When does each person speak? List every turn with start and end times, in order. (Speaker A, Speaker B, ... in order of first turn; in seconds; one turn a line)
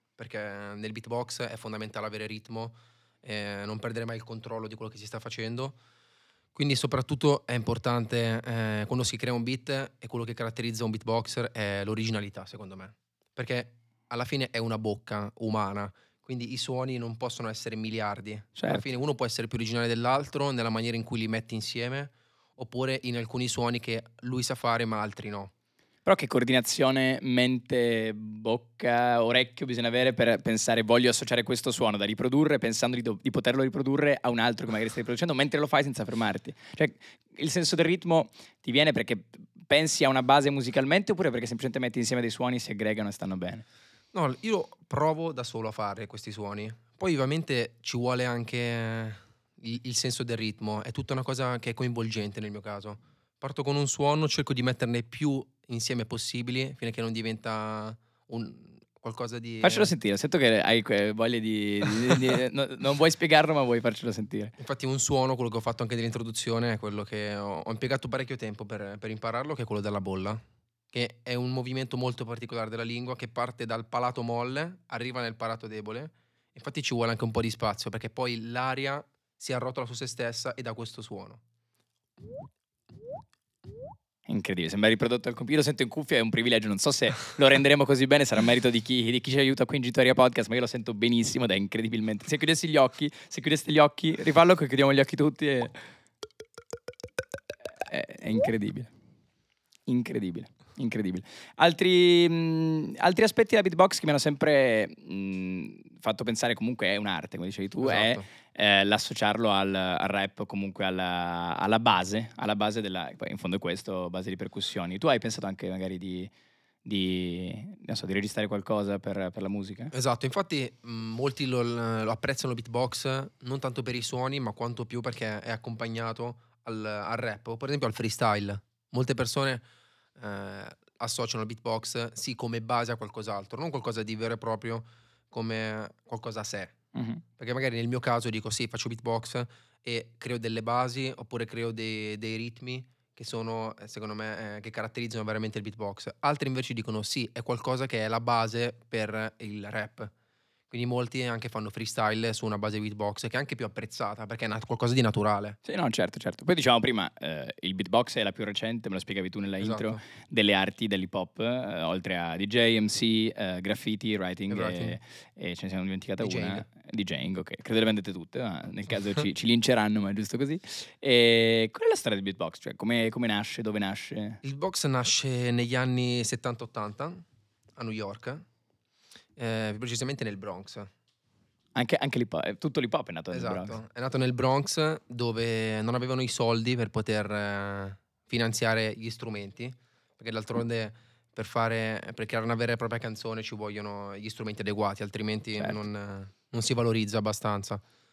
Speaker A: 0.2-5.8
Speaker A: 6.5-25.5
Speaker B: 18.6-18.9
Speaker B: 26.1-43.6
Speaker A: 44.1-59.9
Speaker B: 59.6-64.5
Speaker A: 64.6-81.4
Speaker B: 84.3-95.7
Speaker B: 97.9-98.9
Speaker B: 99.9-116.3
Speaker A: 107.8-108.2
Speaker B: 116.8-119.9
Speaker A: 119.9-129.6
Speaker A: 130.2-136.8
Speaker B: 136.9-137.2
Speaker A: 137.4-150.1
Speaker A: 150.7-155.6
Speaker B: 155.7-174.4
Speaker A: 159.6-160.0
Speaker A: 164.5-165.0
Speaker A: 166.2-166.7
Speaker A: 174.4-177.2
Speaker A: 177.8-178.4
Speaker A: 179.4-180.9
Speaker B: 181.8-183.8
Speaker A: 183.3-197.8
Speaker B: 195.6-195.8